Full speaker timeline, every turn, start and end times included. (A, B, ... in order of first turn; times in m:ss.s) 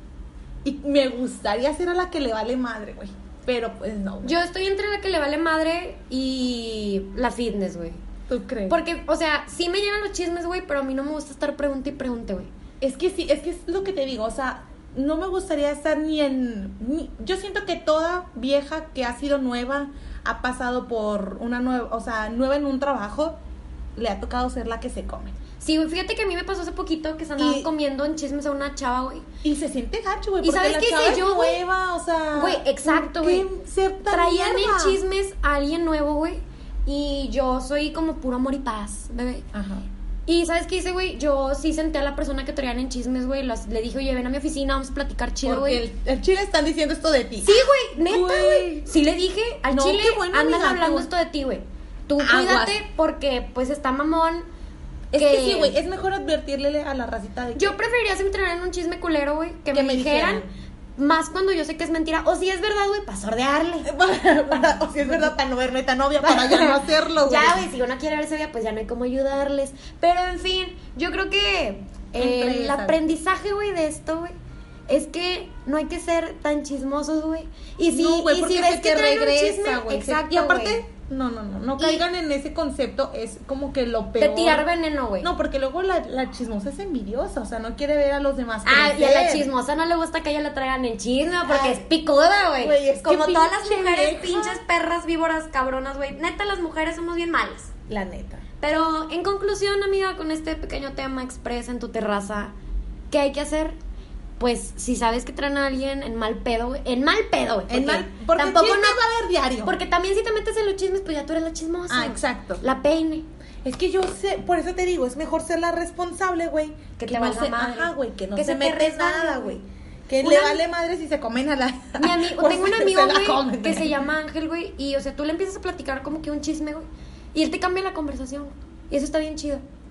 0:00.6-0:04.3 A
0:04.2-0:08.0 B
0:08.3-0:08.8 A
0:08.7-0:12.5 B
0:12.8-0:23.4 A
0:24.0-0:25.3 A
0:25.6-0:29.3 B
0:27.4-0:27.7 A
0:29.4-0:35.0 A
0:30.4-0:31.6 B
0:32.4-0:33.5 B
0:34.1-0:39.4 B
0:39.5-0:39.9 A
0:40.3-0:45.8 B
0:45.4-0:49.0 A
0:47.4-0:54.5 B
0:49.7-0:51.1 A
0:52.2-0:52.8 A
0:55.1-0:57.8 A
0:55.2-0:55.8 B
0:57.6-1:00.4 B
0:59.7-1:00.5 A
1:01.0-1:03.9 B
1:03.8-1:07.6 A
1:06.2-1:14.4 B
1:12.2-1:13.0 A
1:14.9-1:20.8 B
1:17.9-1:24.7 A
1:21.8-1:22.0 B
1:24.2-1:25.3 B
1:25.2-1:29.5 A
1:28.6-1:37.7 B
1:31.5-1:31.8 A
1:32.6-1:34.6 A
1:37.9-1:38.4 A
1:38.6-1:42.5 B
1:43.1-1:43.8 B
1:44.4-1:49.0 B
1:47.7-1:49.8 A
1:49.6-1:53.2 B
1:51.9-1:52.6 A
1:53.6-2:04.0 A
1:57.0-1:59.6 B
2:00.2-2:00.6 B
2:02.0-2:09.6 B